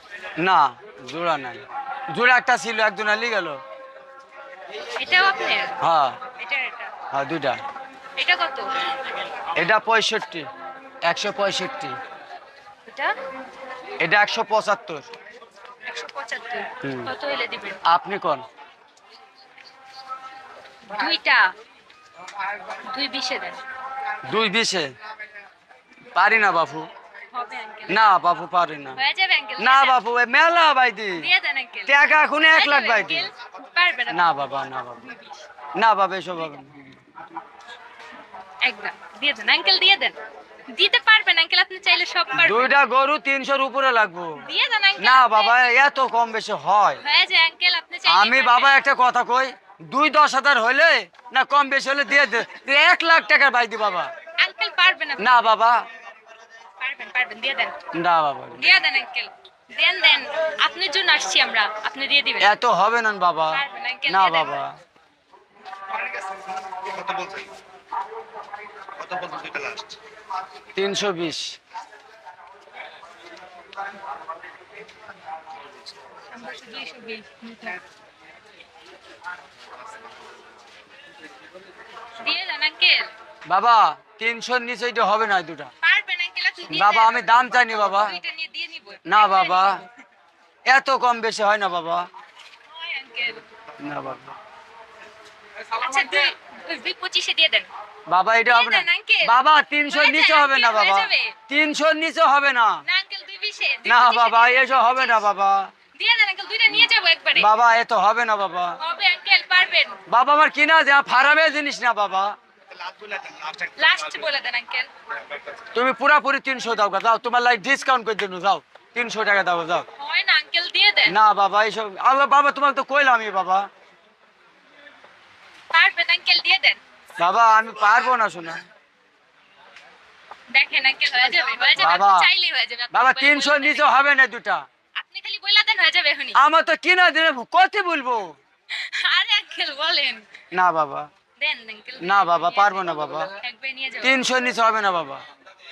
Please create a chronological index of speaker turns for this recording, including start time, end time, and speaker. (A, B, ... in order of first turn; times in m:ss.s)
0:00.4-0:03.6 A
0:04.9-0:05.8 B
0:05.8-0:06.2 A
0:06.4-0:06.9 B
0:07.1-0:07.6 A
0:08.2-0:08.6 B
0:09.6-0:10.4 A
0:11.0-0:12.0 A
0:12.8-0:13.1 B
0:14.0-0:15.1 A
0:15.8-0:17.8 B
0:16.8-0:17.1 A
0:17.8-0:18.4 A
0:20.9-0:21.5 B
0:22.7-0:23.6 B
0:24.3-0:24.9 A
0:26.1-0:26.9 A
0:27.3-0:28.0 B
0:27.9-0:29.0 A
0:29.0-0:30.0 B
0:29.6-0:31.3 A
0:31.2-0:35.4 B
0:31.9-0:33.3 A
0:34.1-0:35.0 A
0:35.7-0:37.0 A
0:38.6-0:40.2 B
0:40.7-0:42.7 B
0:42.3-0:44.3 A
0:44.4-0:45.8 B
0:45.0-0:47.0 A
0:47.0-0:48.8 B
0:48.0-0:54.1 A
0:54.4-0:55.5 B
0:55.2-0:55.8 A
0:56.8-0:57.7 B
0:57.9-0:58.8 A
0:58.6-1:02.5 B
1:02.4-1:04.7 A
1:03.5-1:04.6 B
1:06.8-1:07.5 C
1:09.0-1:10.0 C
1:10.7-1:11.6 A
1:16.3-1:17.8 B
1:22.2-1:23.1 B
1:23.5-1:25.7 A
1:25.8-1:29.8 B
1:26.7-1:28.1 A
1:29.0-1:29.8 A
1:30.7-1:32.0 A
1:32.7-1:33.4 B
1:33.8-1:34.4 A
1:35.7-1:37.7 B
1:38.1-1:42.8 A
1:38.5-1:39.3 B
1:39.8-1:41.3 B
1:42.8-1:45.3 B
1:43.8-1:45.7 A
1:45.9-1:47.5 B
1:47.4-1:48.8 A
1:48.8-1:50.0 B
1:50.1-1:52.3 A
1:52.7-1:53.9 C
1:53.8-1:54.9 B
1:55.7-1:59.8 A
2:00.0-2:01.2 B
2:01.1-2:03.6 A
2:05.7-2:06.8 B
2:07.2-2:08.6 A
2:10.5-2:14.0 B
2:11.8-2:12.3 A
2:12.9-2:14.6 A
2:15.0-2:16.4 B
2:16.4-2:18.3 A
2:18.7-2:20.2 B
2:20.5-2:21.1 A
2:21.4-2:24.2 B
2:22.0-2:23.3 A
2:24.0-2:25.2 A